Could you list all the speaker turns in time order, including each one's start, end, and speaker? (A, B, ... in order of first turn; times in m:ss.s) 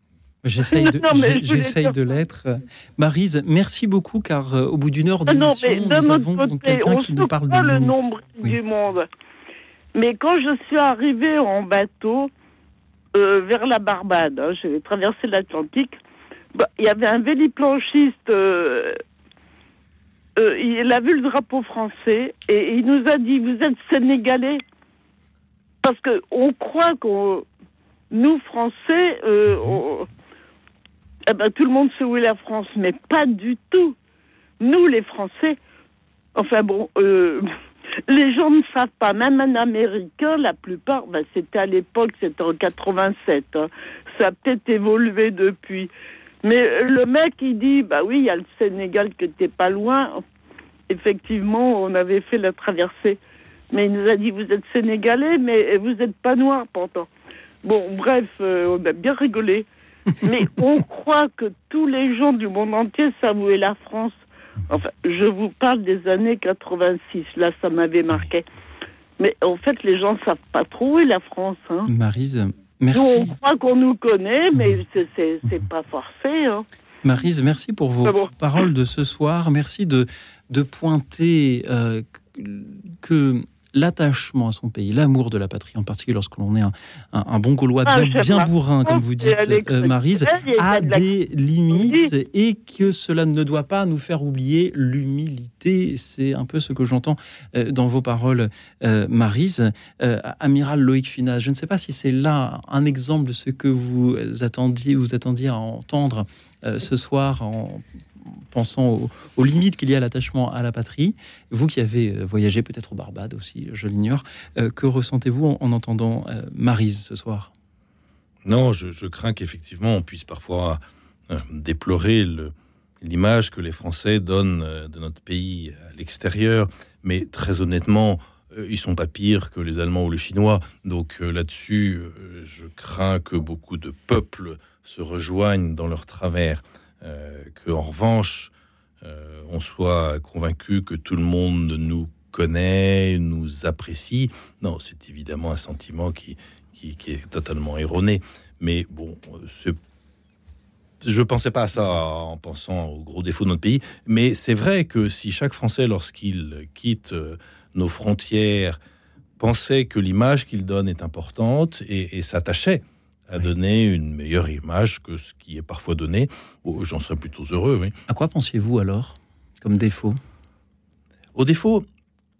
0:00.4-0:08.6 A
0:00.7-0:02.0 B
0:05.3-0:09.1 B
0:09.9-0:12.3 B
0:13.1-0:16.0 B
0:16.5-0:19.0 B
0:20.4-0:24.6 B
0:25.8-0:27.4 B
0:28.1-0:30.1 B
0:31.3-0:33.9 B
0:34.6-0:35.6 B
0:36.3-0:37.4 B
0:38.1-0:45.9 B
0:46.4-0:50.2 B
0:50.9-0:53.2 B
0:53.7-0:57.1 B
0:57.6-0:59.7 B
1:00.2-1:08.4 B
1:09.2-1:11.9 B
1:11.8-1:13.3 A
1:12.9-1:16.6 B
1:17.0-1:57.5 A
1:18.0-1:18.3 B
1:27.8-1:31.0 B
1:31.7-1:32.1 B
1:58.4-2:29.8 C
2:31.0-2:38.8 C
2:39.4-2:47.9 C
2:48.1-2:50.2 A
2:51.3-2:51.8 C